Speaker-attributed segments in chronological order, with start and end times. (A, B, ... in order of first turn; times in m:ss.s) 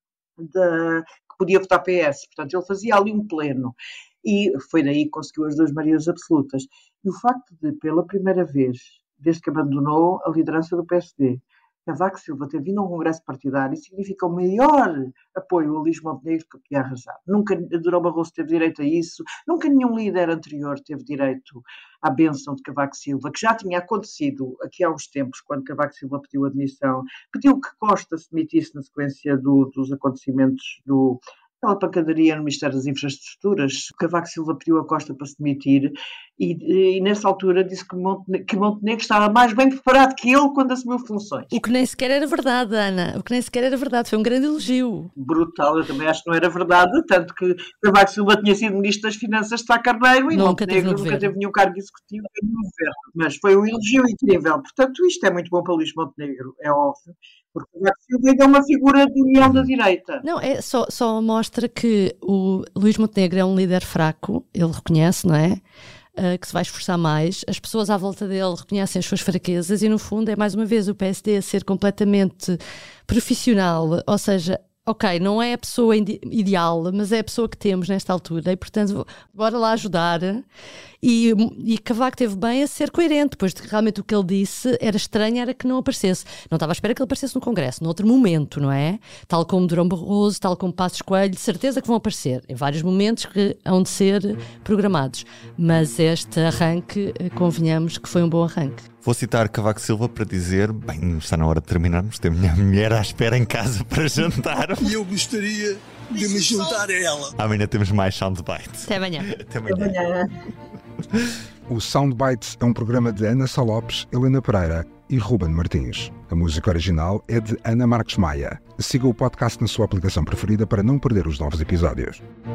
0:00.4-0:41.5 A
0:41.5-0:45.1 B
0:45.2-1:00.2 A
0:50.3-0:51.3 B
0:59.4-0:59.7 C
1:00.2-1:05.6 B
1:06.2-1:20.4 B
1:21.0-1:38.8 B
1:39.0-1:45.0 C
1:44.9-1:47.3 D
1:47.4-1:49.9 C
1:49.7-1:50.2 A
1:51.7-2:02.2 E